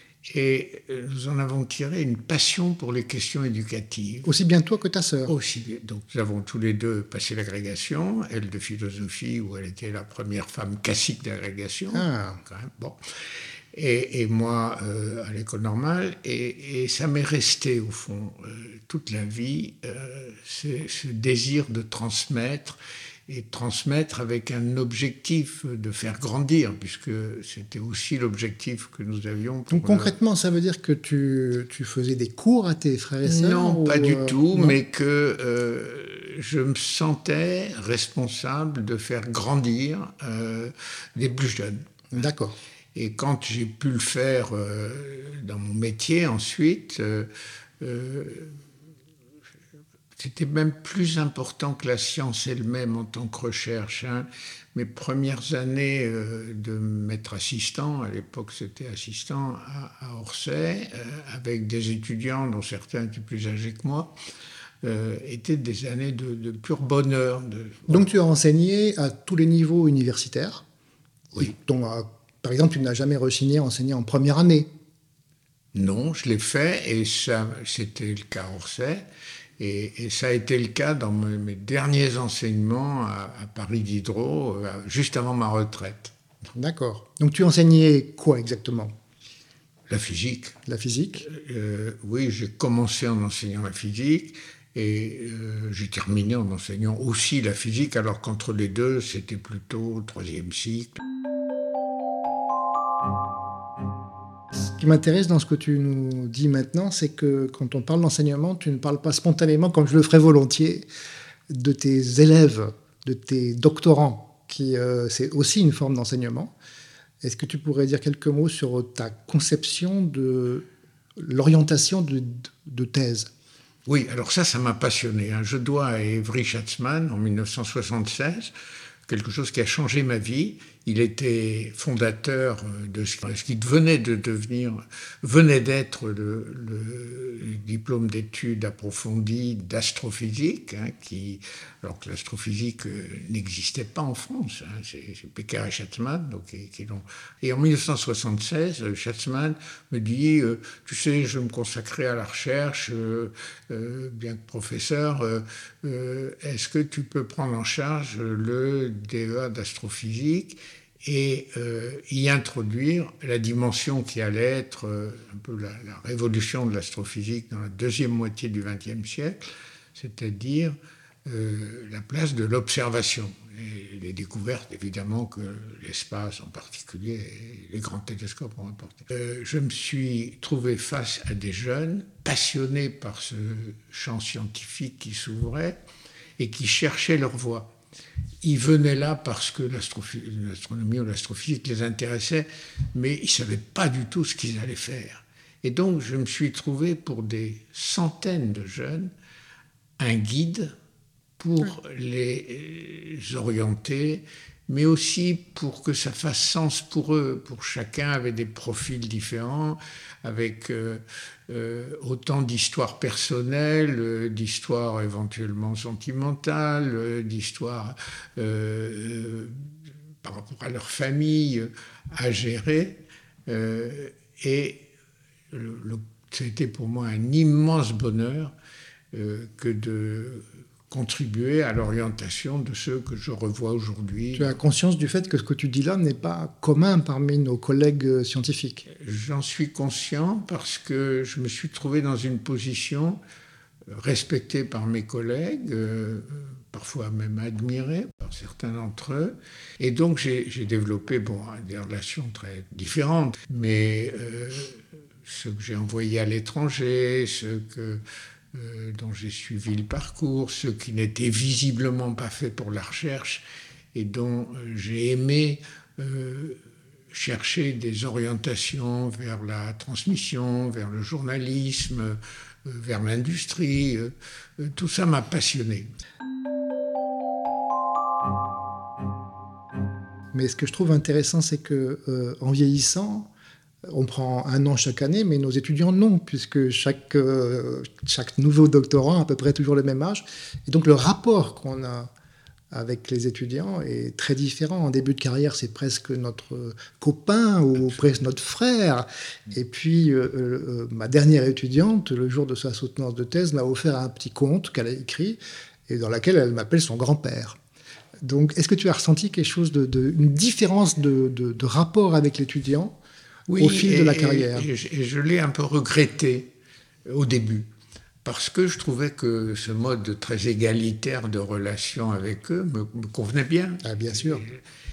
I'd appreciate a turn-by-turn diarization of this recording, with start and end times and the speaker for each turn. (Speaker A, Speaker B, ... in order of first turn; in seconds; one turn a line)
Speaker A: 0.3-4.3
Speaker B: 4.2-5.3
Speaker A: 5.3-13.0
Speaker B: 11.9-12.4
Speaker A: 13.7-30.1
Speaker B: 29.7-34.8
Speaker A: 33.2-42.0
Speaker B: 42.1-42.5
Speaker A: 42.9-47.3
Speaker A: 47.8-48.5
Speaker A: 50.2-64.1
Speaker A: 64.8-68.0
Speaker B: 67.9-70.6
Speaker B: 71.3-74.7
Speaker A: 75.7-79.0
Speaker A: 79.6-86.1
Speaker B: 86.5-88.9
Speaker A: 89.9-90.6
Speaker B: 90.6-91.2
Speaker A: 91.2-101.0
Speaker B: 104.8-110.8
Speaker B: 111.5-116.5
Speaker B: 117.2-120.6
Speaker B: 121.2-123.3
Speaker A: 123.8-128.5
Speaker A: 129.1-169.4
Speaker A: 169.9-185.8
Speaker A: 186.4-187.7
Speaker A: 188.4-199.1
Speaker A: 200.0-200.7
Speaker A: 201.4-224.9
Speaker A: 225.5-228.5
Speaker A: 229.1-234.6
Speaker B: 234.3-238.8
Speaker A: 238.9-243.2
Speaker A: 243.9-258.0
Speaker A: 258.5-266.6
Speaker A: 267.1-275.9
Speaker B: 280.3-283.3
Speaker B: 283.9-292.1
Speaker B: 292.7-307.6
Speaker B: 308.2-313.0
Speaker A: 313.5-316.5
Speaker B: 313.6-314.7
Speaker A: 317.1-317.7
Speaker A: 318.2-324.6
Speaker B: 323.8-324.4